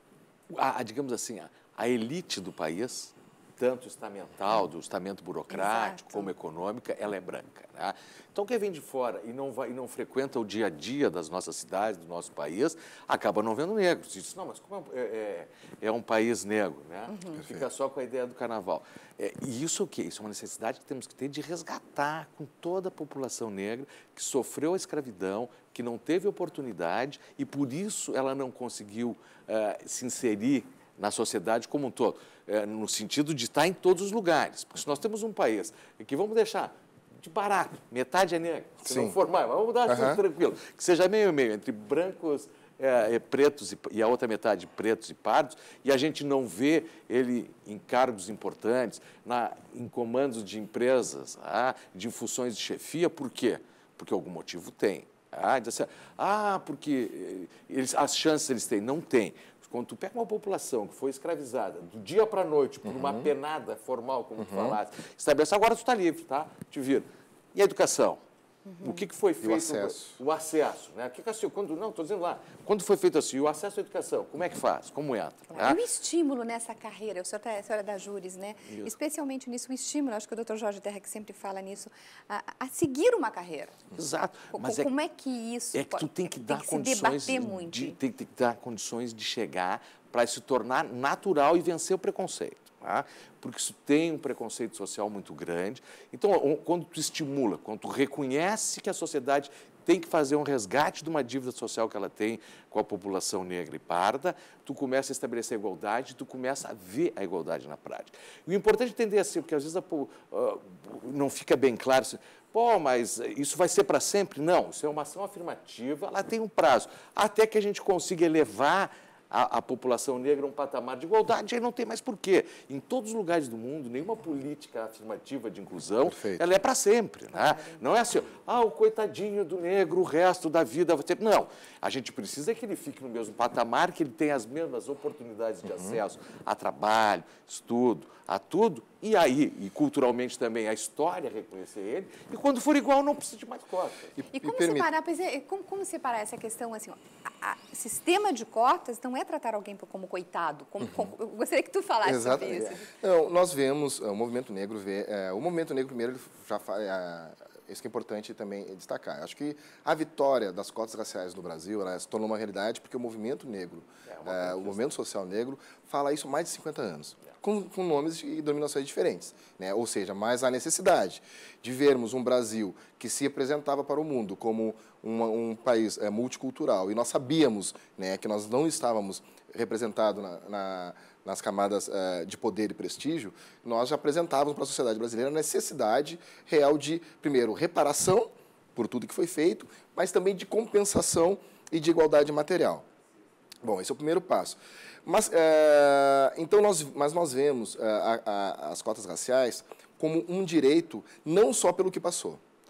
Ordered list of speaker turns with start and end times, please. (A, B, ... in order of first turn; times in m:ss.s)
0:00.5-1:08.2 A
0:05.5-0:06.3 B
0:17.1-0:17.4 B
0:17.4-0:17.6 C
0:38.9-0:39.2 C
0:39.9-0:40.2 C
1:02.8-1:03.3 C
1:04.4-1:04.8 C
1:08.7-1:09.0 B
1:08.8-1:15.8 A
1:09.4-1:10.2 C
1:15.5-1:23.8 B
1:18.7-1:18.9 A
1:24.0-1:24.9 A
1:24.5-1:28.0 B
1:25.7-2:24.2 A
2:06.1-2:06.4 C
2:07.3-2:07.8 B
2:15.7-2:16.0 C
2:24.2-2:24.9 C
2:24.3-2:32.9 B
2:32.0-3:12.8 C
2:44.1-2:44.9 A
3:13.6-3:22.4 C